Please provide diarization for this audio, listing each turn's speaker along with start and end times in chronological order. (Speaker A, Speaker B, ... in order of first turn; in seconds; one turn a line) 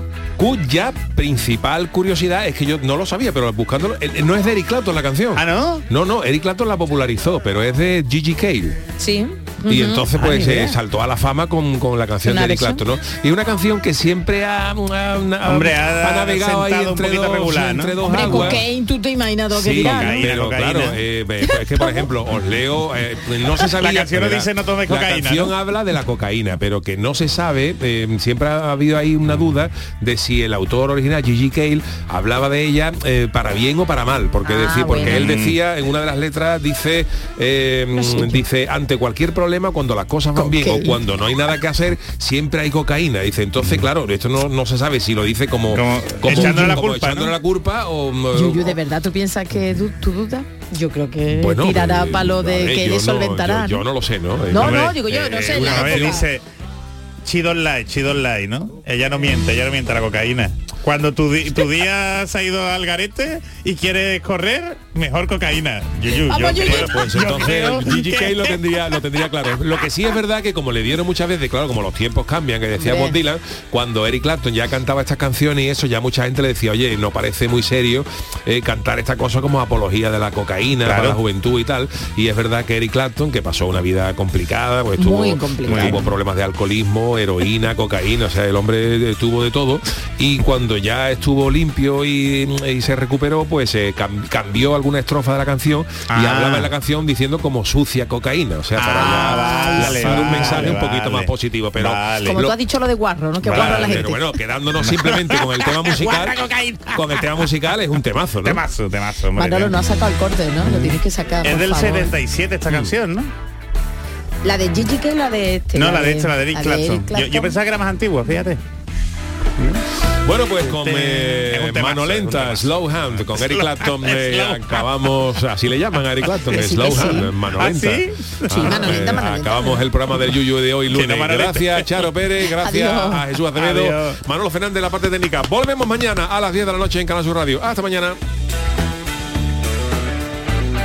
Speaker A: 0.4-8.8
Speaker B: 5.3-5.8
Speaker C: 9.0-10.7
Speaker A: 9.7-18.7
Speaker B: 10.3-10.6
Speaker C: 12.2-12.8
Speaker B: 15.4-18.6
Speaker C: 18.0-20.3
Speaker A: 19.5-48.8
Speaker B: 19.8-21.0
Speaker C: 21.5-22.1
Speaker B: 23.7-25.5
Speaker C: 34.5-35.3
Speaker B: 34.9-35.6
Speaker C: 38.0-38.4
Speaker C: 40.4-41.0
Speaker B: 45.7-47.4
Speaker C: 46.3-46.7
Speaker C: 48.3-53.9
Speaker A: 51.3-56.2
Speaker C: 54.5-56.3
Speaker B: 54.5-56.4
Speaker B: 57.2-68.6
Speaker C: 66.3-67.0
Speaker A: 66.6-102.6
Speaker C: 72.8-73.2
Speaker B: 80.8-81.2
Speaker C: 85.0-86.1
Speaker B: 85.7-86.1
Speaker B: 96.1-96.7
Speaker B: 98.8-102.4
Speaker C: 98.9-100.8
Speaker C: 102.2-104.3
Speaker B: 103.4-104.2
Speaker A: 103.5-106.4
Speaker B: 104.8-107.3
Speaker A: 106.9-108.6
Speaker B: 108.4-109.8
Speaker C: 109.4-112.1
Speaker B: 110.7-113.3
Speaker A: 112.7-112.9
Speaker C: 114.4-117.6
Speaker B: 115.8-118.6
Speaker A: 120.2-138.2
Speaker B: 120.6-124.8
Speaker C: 126.5-127.3
Speaker B: 126.6-129.0
Speaker C: 128.5-129.8
Speaker B: 130.9-132.1
Speaker C: 132.6-133.3
Speaker B: 133.5-134.2